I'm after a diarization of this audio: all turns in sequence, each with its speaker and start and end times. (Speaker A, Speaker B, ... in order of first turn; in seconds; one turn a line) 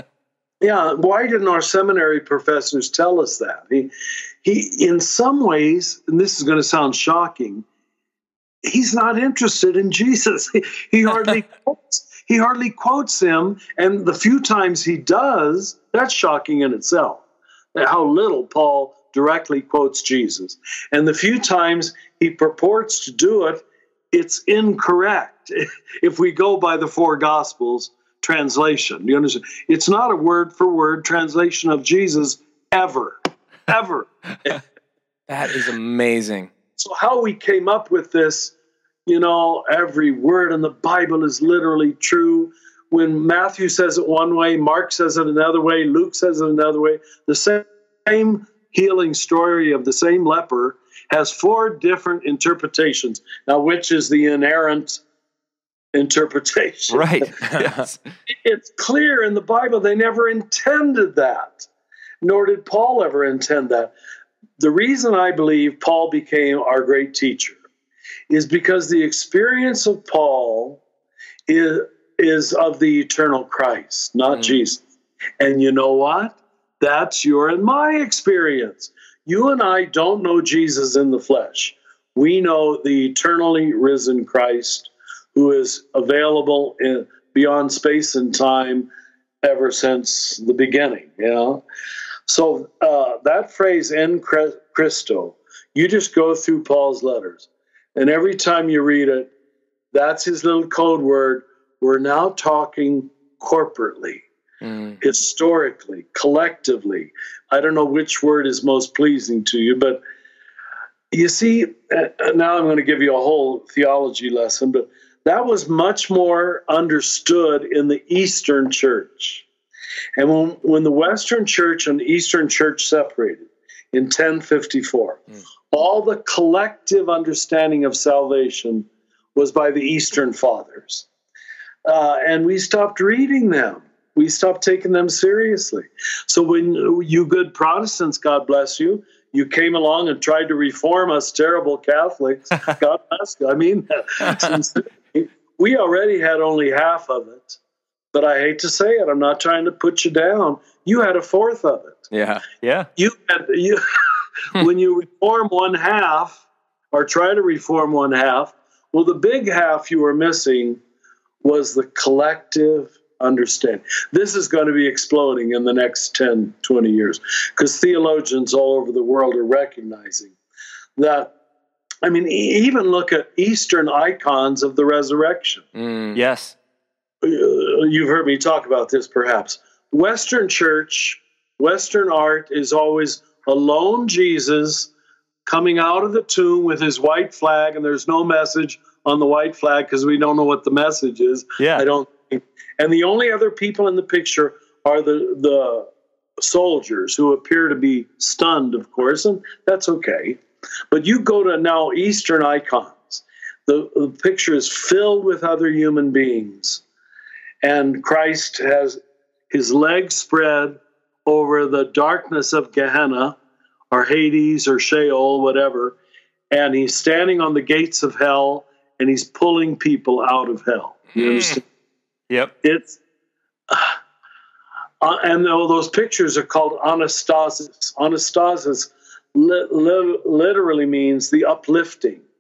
Speaker A: 0.6-3.9
Speaker A: 4.4-7.7
Speaker A: 8.6-17.2
Speaker A: 17.8-33.2
Speaker A: 33.7-34.6
Speaker B: 35.3-36.5
Speaker A: 36.8-38.5
Speaker A: 39.1-55.0
Speaker A: 55.9-57.1
Speaker C: 56.9-58.0
Speaker B: 57.5-57.9
Speaker A: 58.3-61.7
Speaker A: 62.2-63.9
Speaker A: 64.6-67.6
Speaker A: 68.3-70.8
Speaker A: 71.5-74.8
Speaker A: 75.4-88.9
Speaker A: 89.4-91.6
Speaker A: 92.3-99.3
Speaker A: 99.9-104.3
Speaker B: 104.6-105.0
Speaker A: 105.0-110.0
Speaker A: 111.1-119.5
Speaker A: 120.2-131.1
Speaker A: 131.9-147.6
Speaker B: 144.2-144.6
Speaker A: 148.1-152.1
Speaker B: 152.1-152.4
Speaker C: 152.6-152.9
Speaker A: 153.0-153.8
Speaker A: 154.5-156.4
Speaker A: 156.9-160.8
Speaker A: 161.4-170.4
Speaker A: 171.0-171.3
Speaker A: 172.0-175.7
Speaker B: 175.8-176.2
Speaker C: 176.2-176.6
Speaker A: 177.2-184.9
Speaker A: 185.5-195.9
Speaker C: 191.6-191.8
Speaker A: 196.4-206.8
Speaker A: 207.6-213.4
Speaker A: 213.9-216.0
Speaker A: 216.5-221.6
Speaker B: 221.2-221.6
Speaker A: 222.6-223.0
Speaker A: 223.7-224.0
Speaker A: 225.0-232.2